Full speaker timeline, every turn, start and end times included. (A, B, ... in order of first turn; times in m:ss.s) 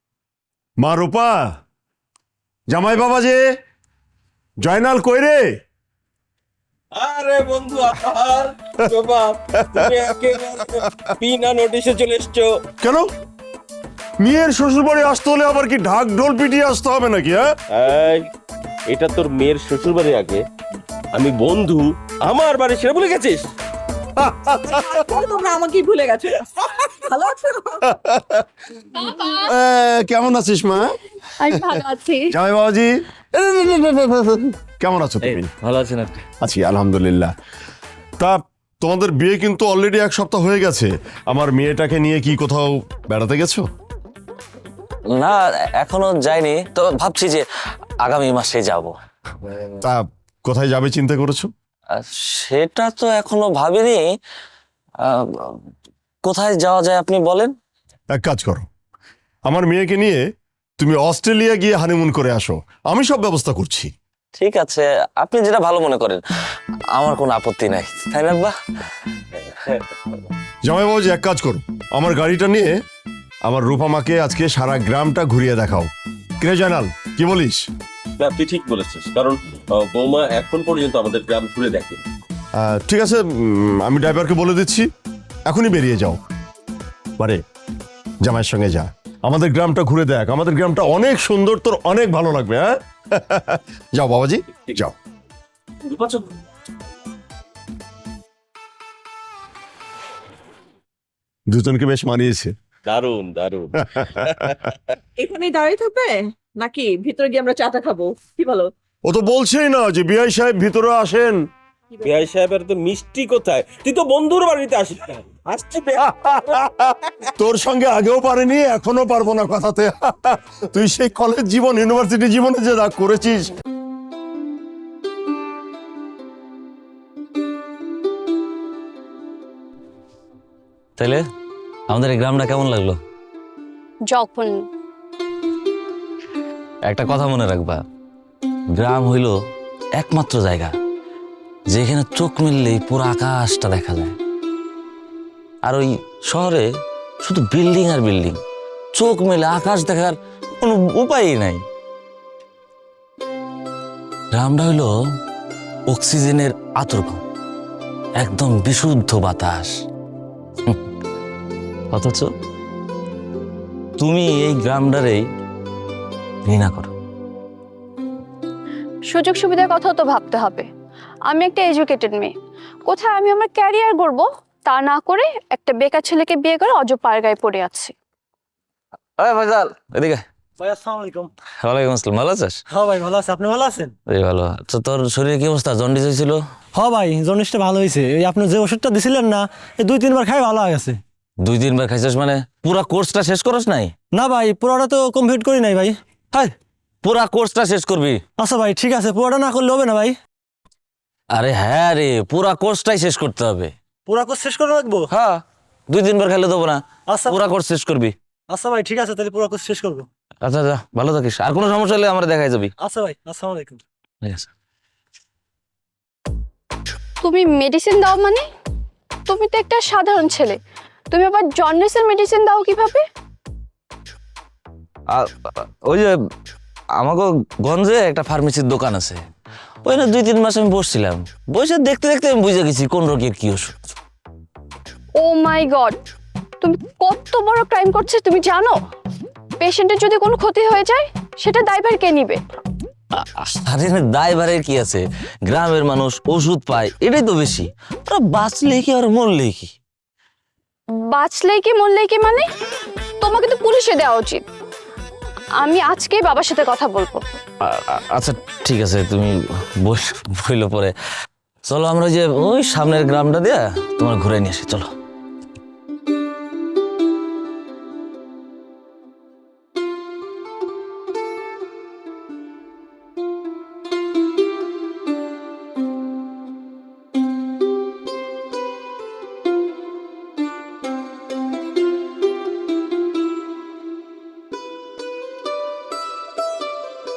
0:00.8-0:01.6 A
0:02.7-0:03.4 A
0:04.6-0:05.6 A
0:06.9-0:12.6 B
0:09.6-0:09.9 A
0:12.8-0:13.1 A
0:14.2-0:17.4 A
0:17.7-0:18.3 B
0:18.9-0:20.4 B
0:21.1-0:23.5 B
0:24.2-0:24.8 A
0:24.6-0:27.8 C
0:27.9-0:28.4 A
0:29.2-0:31.0 A
0:31.4-0:32.3 D
0:31.5-0:31.8 A
0:32.3-0:35.5 A
0:35.2-0:36.2 E
0:36.4-0:37.3 A
0:38.2-0:43.6 A
0:45.1-0:47.4 E
0:48.0-0:48.9 E
0:49.8-0:51.5 A
0:51.9-0:54.0 E
0:55.0-0:55.6 E
0:56.2-0:57.6 E
0:58.1-0:58.7 A
0:59.5-1:00.2 A
1:00.8-1:03.9 A
1:04.4-1:06.2 E
1:06.9-1:08.5 E
1:10.6-1:12.7 A
1:13.4-1:15.9 A
1:16.4-1:17.6 A
1:18.2-1:22.0 B
1:22.6-1:24.8 A
1:25.5-1:26.2 A
1:28.2-1:35.0 A
1:41.5-1:42.5 A
1:42.8-1:45.0 B
1:45.2-1:48.7 C
1:49.0-1:51.4 A
1:52.0-1:56.7 B
1:56.1-1:56.8 A
1:57.4-2:03.5 A
2:11.0-2:11.2 E
2:11.9-2:13.0 E
2:14.1-2:14.5 D
2:16.8-2:17.8 E
2:18.7-2:19.3 E
2:20.0-2:20.7 E
2:21.7-2:24.1 E
2:25.6-2:26.7 E
2:27.2-2:28.4 E
2:28.9-2:31.6 E
2:34.3-2:34.9 E
2:35.9-2:37.2 E
2:38.2-2:39.7 E
2:41.9-2:42.3 E
2:44.0-2:45.2 E
2:46.4-2:46.9 E
2:49.1-2:50.7 D
2:51.3-2:52.3 D
2:52.8-2:57.9 D
2:59.2-3:00.2 E
3:00.6-3:01.3 F
3:01.6-3:02.6 E
3:02.7-3:03.9 F
3:04.1-3:06.4 E
3:06.7-3:11.0 F
3:11.4-3:13.9 E
3:14.1-3:16.5 F
3:17.0-3:18.2 E
3:18.4-3:20.2 F
3:21.3-3:23.7 E
3:24.1-3:25.1 F
3:25.1-3:28.1 E
3:27.1-3:27.4 F
3:28.5-3:30.1 F
3:30.4-3:32.7 E
3:32.8-3:33.8 F
3:34.2-3:34.5 E
3:37.2-3:38.4 D
3:39.3-3:40.6 D
3:41.1-3:43.0 D
3:45.1-3:46.1 E
3:47.0-3:49.2 E
3:49.8-3:53.7 E
3:55.2-3:56.0 D
3:56.6-3:58.8 D
3:59.6-4:02.4 D
4:03.1-4:09.7 E
4:10.9-4:12.5 D
4:13.2-4:14.4 D
4:15.6-4:17.2 D
4:17.6-4:20.9 E
4:21.6-4:24.9 E